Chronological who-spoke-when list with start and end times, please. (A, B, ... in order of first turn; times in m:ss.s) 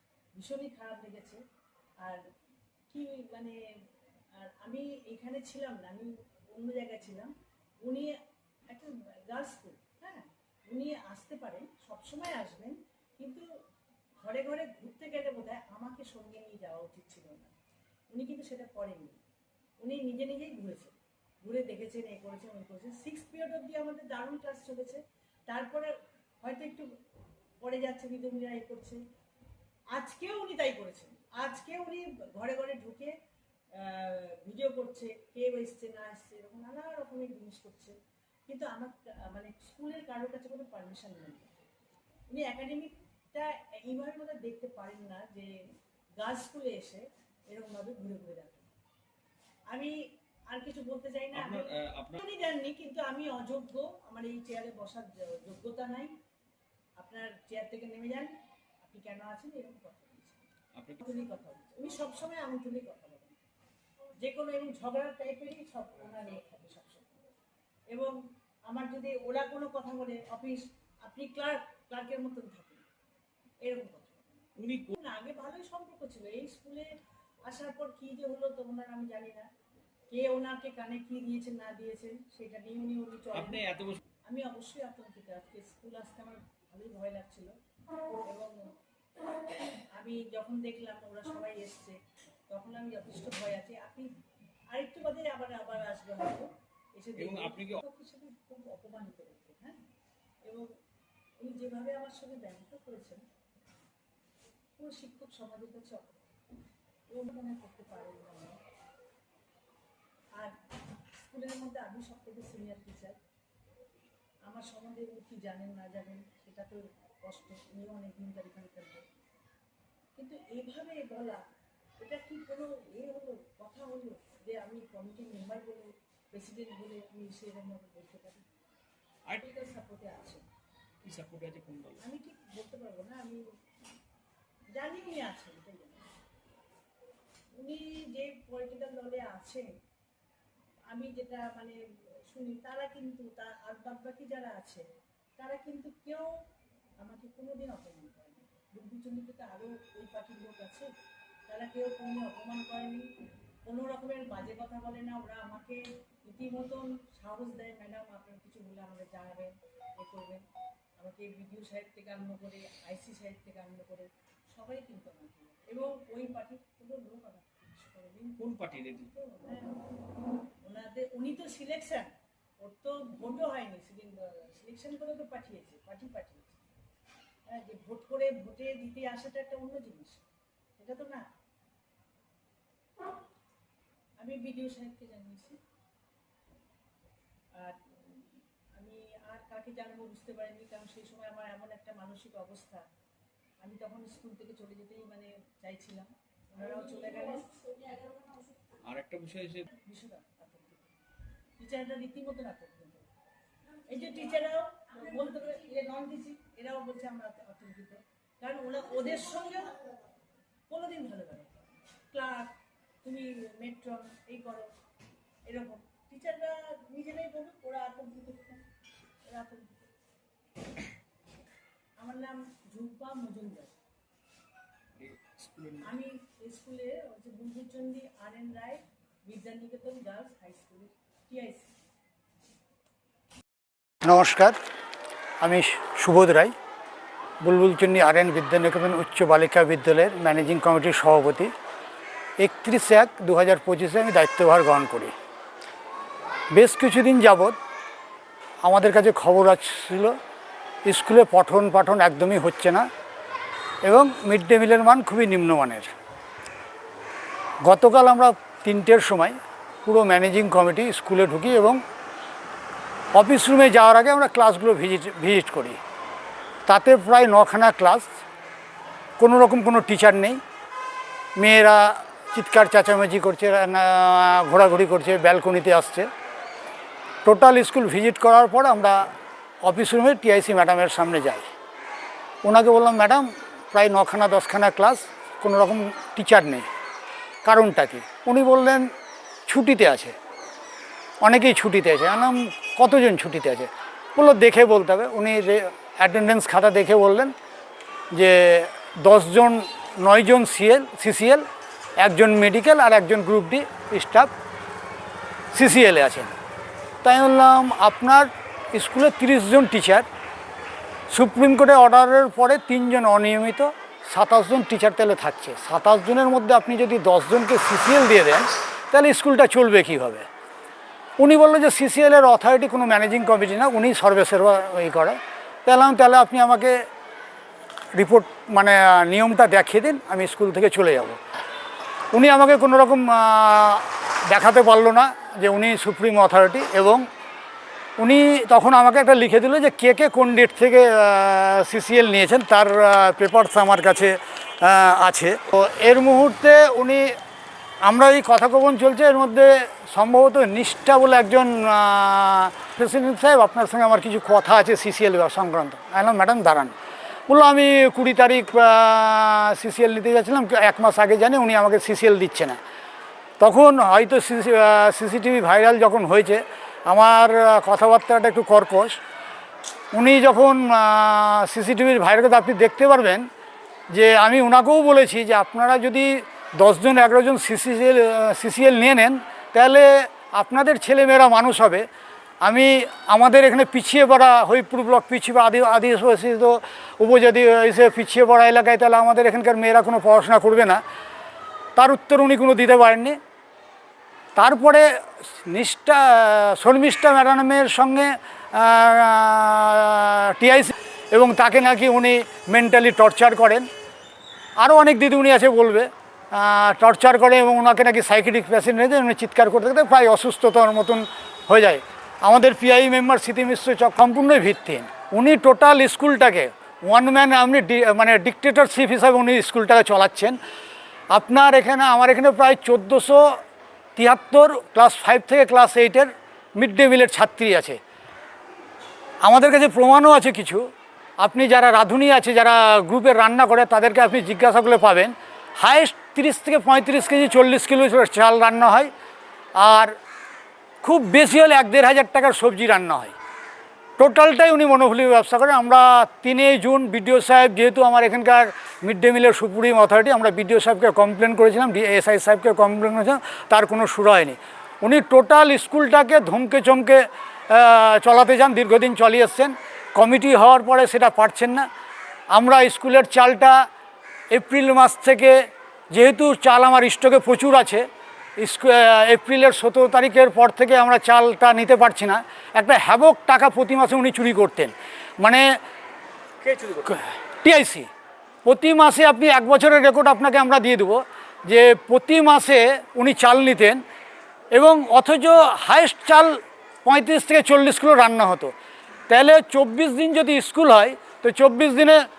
0:00.4-0:01.4 A
0:02.9-0:03.6 A
0:04.3-0:08.2 A
0:08.7-0:13.4 A
0:14.2-0:17.5 A
0:18.1-0:19.2 A
0:19.8-0:26.9 A
0:27.6-0:29.0 A
0:29.9-0:33.1 A
0:33.7-0:37.9 A
0:38.5-0:41.5 A
0:42.3-0:45.6 A
0:46.2-0:48.7 A
0:49.7-0:56.1 A
0:51.3-0:52.2 B
0:57.0-1:00.4 A
1:00.7-1:01.0 B
1:01.0-1:03.4 A
1:04.2-1:07.2 A
1:07.9-1:12.8 A
1:13.6-1:19.5 A
1:14.6-1:14.9 B
1:20.1-1:27.5 A
1:23.3-1:24.0 B
1:28.2-1:28.7 A
1:29.9-1:32.0 A
1:32.5-1:34.1 A
1:34.7-1:39.8 A
1:37.2-1:37.8 B
1:40.4-1:40.7 A
1:41.4-1:43.2 A
1:44.8-1:46.2 A
1:47.1-1:48.6 A
1:51.2-1:53.2 A
1:54.4-1:59.0 A
2:00.2-2:01.4 A
2:02.0-2:08.4 A
2:09.4-2:10.4 A
2:11.0-2:12.0 B
2:12.0-2:13.4 A
2:14.7-2:16.0 A
2:17.6-2:19.7 A
2:20.9-2:24.8 A
2:25.4-2:26.3 A
2:27.0-2:30.9 A
2:31.5-2:33.0 A
2:33.6-2:40.4 A
2:41.0-2:49.8 A
2:48.4-2:49.1 B
2:50.6-2:56.6 A
2:57.5-3:00.2 A
3:00.8-3:01.2 A
3:04.2-3:05.6 A
3:07.5-3:12.8 A
3:13.6-3:17.9 A
3:18.8-3:19.7 B
3:19.6-3:20.9 A
3:21.6-3:23.1 A
3:23.8-3:30.0 A
3:30.7-3:34.7 A
3:35.4-3:38.6 A
3:39.3-3:39.8 A
3:42.0-3:43.7 A
3:45.0-3:45.9 B
3:45.8-3:51.7 A
3:54.0-3:54.6 C
3:55.4-3:56.5 C
3:57.4-4:01.5 C
4:02.4-4:05.1 C
4:06.5-4:07.6 C
4:08.6-4:10.2 C
4:10.8-4:12.8 C
4:13.8-4:15.9 C
4:17.6-4:21.8 C
4:23.1-4:25.8 C
4:26.6-4:28.1 C
4:29.2-4:30.4 C
4:31.4-4:36.1 C
4:37.2-4:41.5 C
4:42.4-4:46.7 C
4:47.4-4:48.9 C
4:49.5-4:50.1 C
4:51.2-4:57.3 C
4:58.1-5:01.4 C
5:02.0-5:04.3 C
5:05.5-5:06.3 C
5:07.0-5:10.0 C
5:11.1-5:20.3 C
5:21.2-5:26.8 C
5:27.9-5:31.2 C
5:32.1-5:37.0 C
5:38.0-5:47.1 C
5:47.8-5:56.7 C
5:57.3-6:02.6 C
6:03.4-6:09.0 C
6:09.9-6:13.2 C
6:13.9-6:21.8 C
6:22.4-6:30.8 C
6:31.8-6:33.2 C
6:34.4-6:43.7 C
6:44.6-7:00.4 C
7:01.1-7:03.4 C
7:04.0-7:07.8 C
7:09.2-7:10.6 C
7:11.2-7:18.9 C
7:19.5-7:20.0 C
7:20.8-7:23.1 C
7:24.0-7:41.7 C
7:42.3-7:43.6 C
7:44.3-7:45.4 C
7:45.9-7:47.8 C
7:48.4-7:55.4 C
7:56.4-7:57.0 B
7:56.9-7:57.9 C
7:58.4-8:03.8 C
8:04.5-8:08.5 C
8:09.1-8:12.0 C